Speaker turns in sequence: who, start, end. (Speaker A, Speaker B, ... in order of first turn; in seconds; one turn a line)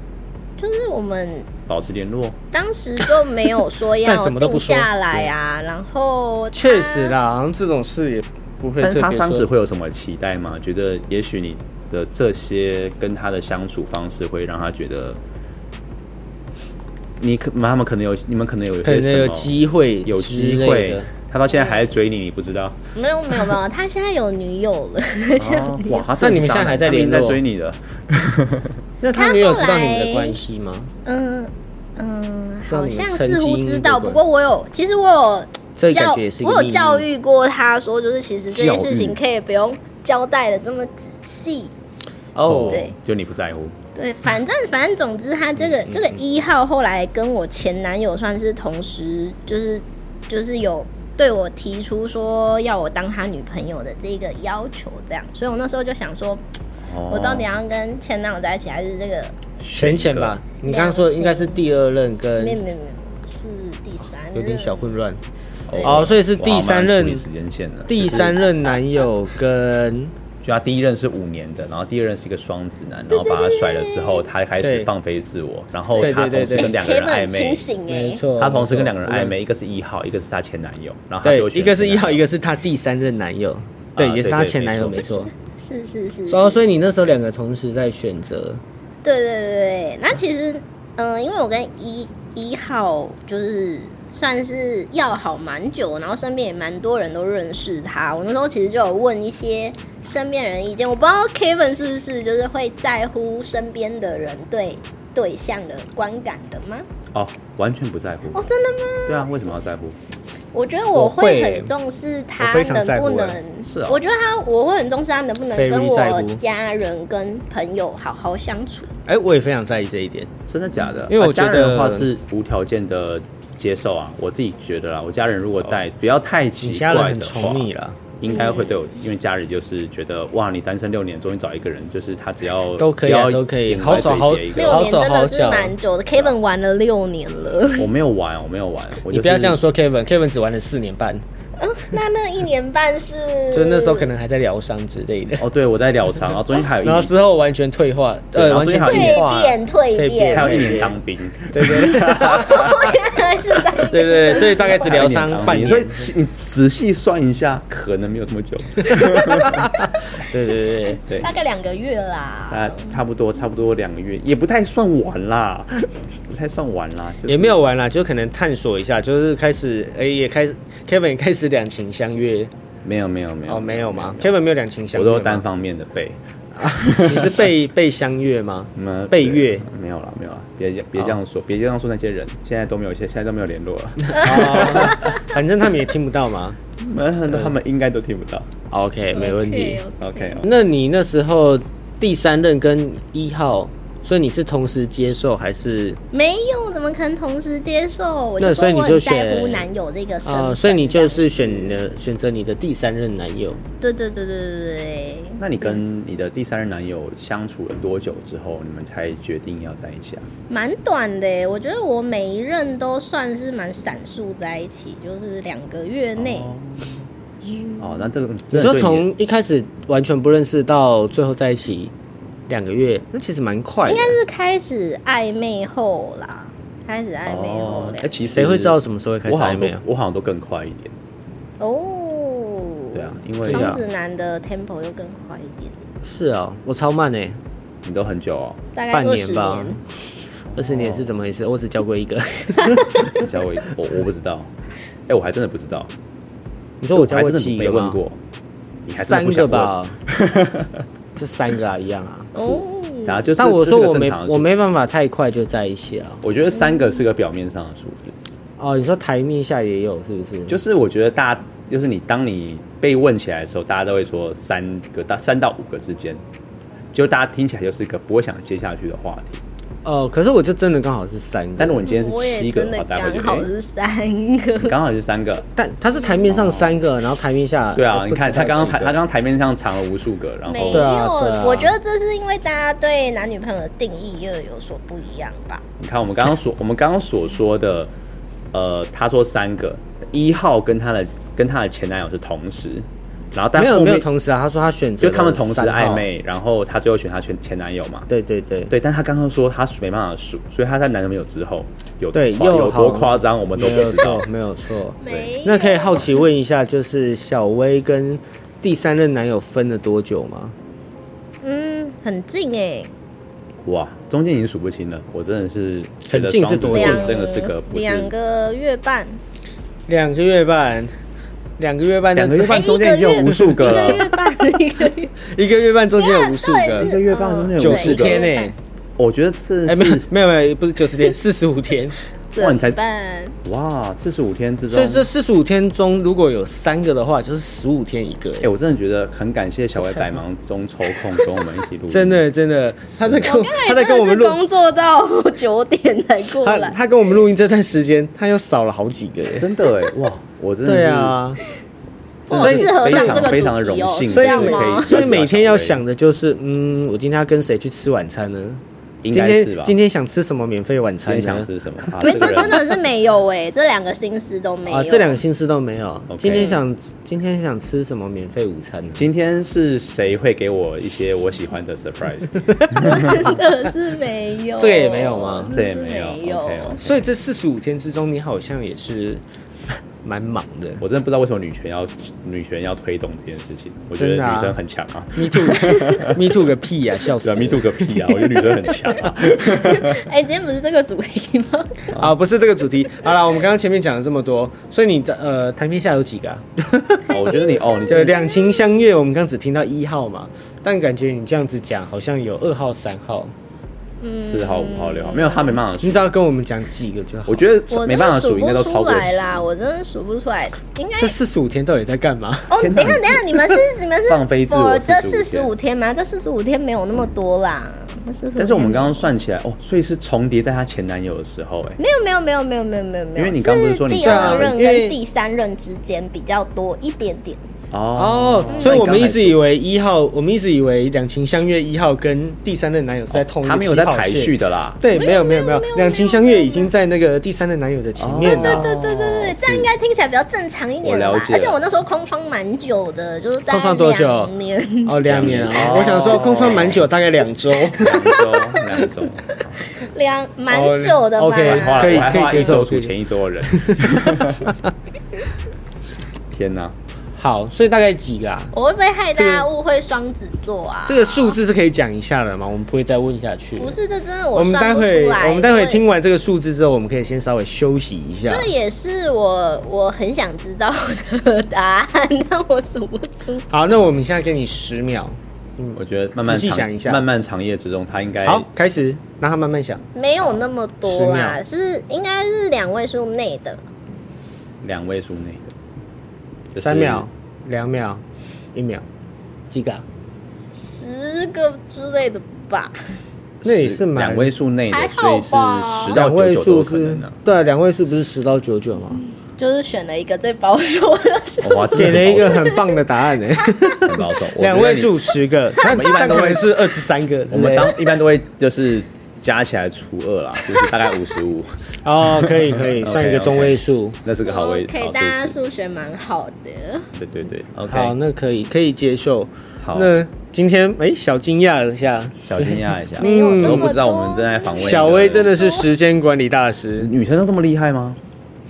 Speaker A: 0.6-1.5
Speaker B: 1.7-2.4
Speaker A: 2.5-7.2
Speaker C: 4.0-5.3
Speaker C: 6.5-9.5
Speaker B: 8.8-15.2
Speaker B: 17.2-19.5
Speaker C: 18.8-21.1
Speaker B: 20.0-22.8
Speaker A: 21.5-21.9
Speaker A: 22.9-26.1
Speaker B: 25.4-28.7
Speaker C: 26.2-27.4
Speaker C: 29.0-30.9
Speaker A: 29.1-30.4
Speaker A: 31.0-41.7
Speaker C: 32.7-34.2
Speaker C: 35.8-37.0
Speaker B: 38.5-39.2
Speaker C: 42.3-42.9
Speaker B: 42.4-43.8
Speaker A: 42.7-43.0
Speaker A: 43.9-56.4
Speaker C: 45.8-46.2
Speaker B: 56.8-57.6
Speaker A: 57.1-59.4
Speaker B: 59.6-60.4
Speaker C: 59.7-62.6
Speaker A: 60.6-61.6
Speaker A: 62.4-64.9
Speaker C: 64.3-65.2
Speaker B: 65.7-68.4
Speaker A: 65.7-66.1
Speaker C: 65.8-67.2
Speaker C: 67.9-70.1
Speaker B: 70.4-77.7
Speaker A: 73.1-74.2
Speaker C: 74.6-74.9
Speaker C: 76.0-76.7
Speaker A: 76.5-78.2
Speaker C: 77.9-79.3
Speaker B: 78.4-82.2
Speaker C: 81.2-85.3
Speaker B: 84.0-85.2
Speaker A: 85.5-86.7
Speaker C: 86.3-88.6
Speaker A: 89.0-106.8
Speaker B: 107.1-108.5
Speaker A: 108.3-109.3
Speaker B: 109.1-110.0
Speaker A: 110.5-118.9
Speaker C: 110.9-111.7
Speaker C: 112.4-113.4
Speaker B: 113.6-114.0
Speaker C: 115.5-116.4
Speaker C: 119.0-120.3
Speaker B: 120.5-127.7
Speaker C: 121.1-122.1
Speaker C: 126.6-128.0
Speaker B: 128.2-134.9
Speaker A: 128.3-128.8
Speaker C: 132.8-135.7
Speaker A: 133.8-137.9
Speaker B: 137.8-139.6
Speaker C: 139.1-141.2
Speaker A: 141.6-144.1
Speaker C: 143.5-145.4
Speaker B: 145.4-147.1
Speaker C: 146.8-153.1
Speaker B: 148.3-149.3
Speaker A: 148.8-150.9
Speaker B: 150.3-153.0
Speaker A: 152.3-154.9
Speaker C: 153.7-156.1
Speaker B: 154.6-159.8
Speaker C: 158.9-161.0
Speaker A: 161.0-163.0
Speaker B: 162.5-167.6
Speaker C: 167.3-172.5
Speaker B: 172.8-174.4
Speaker C: 173.5-175.4
Speaker B: 174.9-177.5
Speaker C: 176.6-179.7
Speaker B: 178.7-185.2
Speaker C: 184.1-186.6
Speaker B: 186.8-188.5
Speaker C: 188.7-189.8
Speaker A: 189.1-190.4
Speaker B: 190.0-190.5
Speaker C: 190.4-196.0
Speaker A: 196.1-201.8
Speaker C: 198.4-199.7
Speaker C: 200.2-203.6
Speaker A: 203.8-205.8
Speaker B: 205.4-210.3
Speaker A: 210.5-216.5
Speaker B: 216.2-217.1
Speaker A: 217.5-217.9
Speaker B: 217.6-219.1
Speaker C: 218.5-221.9
Speaker C: 222.5-224.2
Speaker A: 223.8-228.1
Speaker B: 227.2-230.9
Speaker C: 228.3-229.8
Speaker A: 231.6-235.8
Speaker B: 232.9-233.8
Speaker C: 233.5-233.8
Speaker C: 236.0-237.4
Speaker B: 237.8-238.6
Speaker A: 238.8-239.8
Speaker C: 238.9-239.8
Speaker B: 240.5-241.2
Speaker C: 240.5-243.2
Speaker B: 243.1-244.5
Speaker B: 245.1-245.9
Speaker C: 246.8-248.0
Speaker B: 246.9-248.2
Speaker B: 248.8-250.8
Speaker C: 248.9-249.9
Speaker C: 251.2-252.6
Speaker A: 252.3-253.2
Speaker B: 253.0-254.5
Speaker C: 253.4-256.2
Speaker B: 256.2-258.1
Speaker C: 258.6-260.6
Speaker B: 260.5-266.2
Speaker B: 266.9-269.4
Speaker C: 269.8-271.9
Speaker B: 271.6-273.5
Speaker A: 271.8-274.7
Speaker B: 274.6-275.5
Speaker C: 275.6-279.0
Speaker B: 276.3-276.8
Speaker B: 277.7-281.0
Speaker A: 280.5-285.6
Speaker C: 280.7-281.7
Speaker B: 285.8-287.9
Speaker B: 288.5-294.1
Speaker C: 293.6-296.1
Speaker B: 295.0-298.1
Speaker C: 298.1-298.7
Speaker B: 298.7-304.2
Speaker C: 302.1-310.5
Speaker A: 305.0-306.2
Speaker A: 311.4-312.9
Speaker B: 313.6-318.1
Speaker C: 316.1-317.2
Speaker A: 316.7-319.2
Speaker C: 319.9-320.9
Speaker C: 321.6-324.1
Speaker B: 322.1-324.1
Speaker A: 322.5-325.1
Speaker C: 325.2-326.9
Speaker A: 326.0-328.5
Speaker B: 326.7-328.2
Speaker C: 327.6-328.6
Speaker B: 329.0-330.1
Speaker C: 329.6-331.9
Speaker A: 332.3-333.4
Speaker B: 332.4-332.8
Speaker B: 333.4-335.1
Speaker C: 334.7-338.5
Speaker B: 338.4-342.2
Speaker C: 341.9-344.4
Speaker B: 343.0-343.4
Speaker A: 343.3-346.8
Speaker C: 346.4-349.5
Speaker B: 349.4-351.1
Speaker C: 350.6-351.4
Speaker B: 352.3-355.8
Speaker A: 352.3-354.9
Speaker C: 352.3-353.4
Speaker C: 354.1-362.7
Speaker B: 359.0-359.8
Speaker B: 361.1-362.6
Speaker A: 362.0-365.2
Speaker C: 364.6-369.0
Speaker B: 366.1-366.5
Speaker A: 366.3-366.6
Speaker B: 368.9-373.3
Speaker A: 372.8-376.8
Speaker C: 374.6-375.5
Speaker B: 375.5-377.1
Speaker C: 376.8-379.2
Speaker C: 380.0-380.8
Speaker B: 380.8-386.2
Speaker C: 384.0-384.6
Speaker C: 385.1-388.2
Speaker B: 387.2-390.1
Speaker A: 389.0-391.9
Speaker C: 391.9-397.1
Speaker B: 397.1-398.1
Speaker A: 397.2-398.7
Speaker C: 397.9-403.3
Speaker A: 404.0-405.6
Speaker B: 404.2-406.1
Speaker C: 405.8-407.4
Speaker B: 407.3-409.4
Speaker A: 407.7-411.1
Speaker C: 410.9-413.5
Speaker A: 412.5-419.1
Speaker B: 412.6-413.2
Speaker B: 414.1-415.5
Speaker B: 418.4-421.8
Speaker A: 421.8-427.4
Speaker B: 423.1-424.5
Speaker C: 424.0-425.0
Speaker B: 427.7-429.4
Speaker C: 427.9-438.7
Speaker A: 428.5-428.8
Speaker B: 433.1-434.8
Speaker A: 434.9-436.7
Speaker B: 438.0-439.4
Speaker A: 438.2-446.1
Speaker B: 440.8-441.6
Speaker C: 443.5-444.3
Speaker C: 444.8-448.2
Speaker B: 445.1-446.9
Speaker B: 447.8-449.7
Speaker A: 449.7-452.6
Speaker C: 450.5-452.9
Speaker B: 451.4-454.5
Speaker C: 453.5-454.5
Speaker B: 456.3-456.8
Speaker C: 457.2-458.5
Speaker A: 458.5-461.4
Speaker C: 459.1-459.5
Speaker C: 460.9-463.8
Speaker A: 463.6-465.8
Speaker C: 464.3-468.5
Speaker A: 468.3-473.4
Speaker C: 473.5-477.0
Speaker B: 475.7-478.5
Speaker C: 478.2-479.8
Speaker A: 479.9-483.6
Speaker C: 480.8-481.4
Speaker B: 484.6-485.5
Speaker B: 486.5-487.1
Speaker C: 486.6-488.0
Speaker C: 488.5-488.9
Speaker C: 489.5-489.8
Speaker A: 490.5-492.8
Speaker B: 493.4-497.1
Speaker C: 493.4-494.3
Speaker A: 494.7-496.0
Speaker C: 495.9-499.0
Speaker A: 499.4-502.6
Speaker B: 501.4-502.5
Speaker C: 501.7-507.8
Speaker B: 503.8-505.0
Speaker B: 505.6-506.5
Speaker B: 507.3-515.4
Speaker A: 510.5-510.9
Speaker C: 511.8-514.0
Speaker A: 514.2-516.9
Speaker B: 516.9-517.9
Speaker C: 517.7-523.7
Speaker B: 519.6-519.9
Speaker B: 522.2-525.3
Speaker A: 523.0-525.7
Speaker C: 524.5-526.9
Speaker B: 526.8-528.0